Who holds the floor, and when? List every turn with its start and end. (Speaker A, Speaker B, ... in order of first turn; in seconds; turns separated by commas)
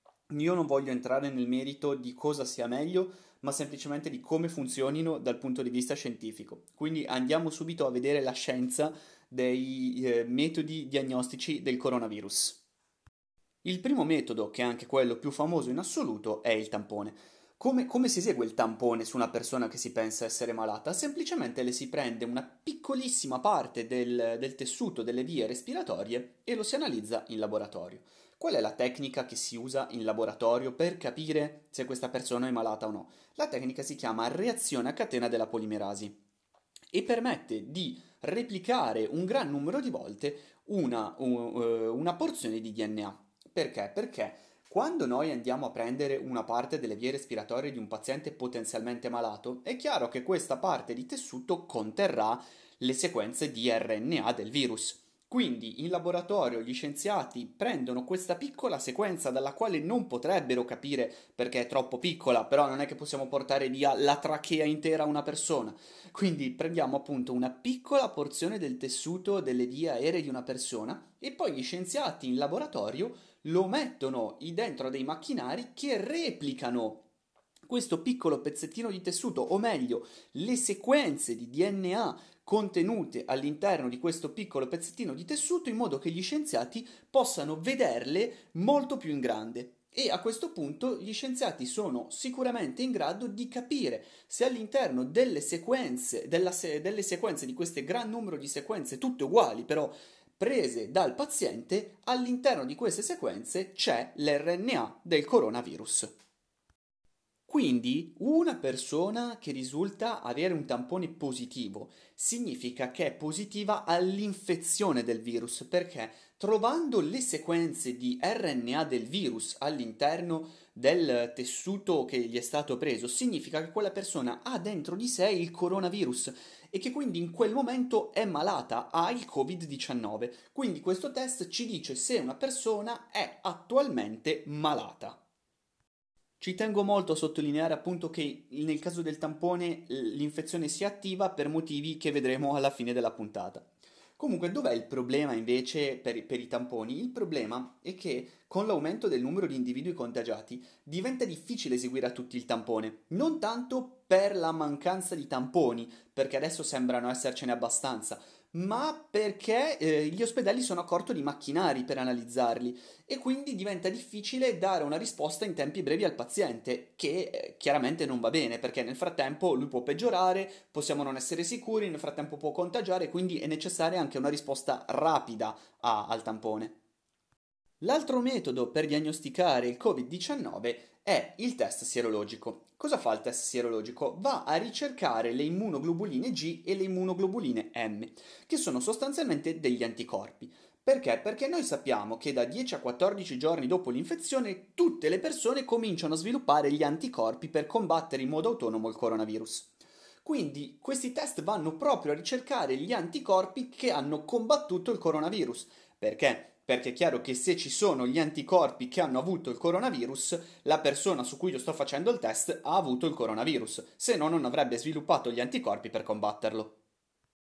Speaker A: 0.3-12.6, Speaker A: 13.6-36.2, Speaker A: 36.9-77.0, Speaker A: 77.6-106.1, Speaker A: 107.5-135.2, Speaker A: 136.4-176.8, Speaker A: 177.8-199.7, Speaker A: 200.2-216.8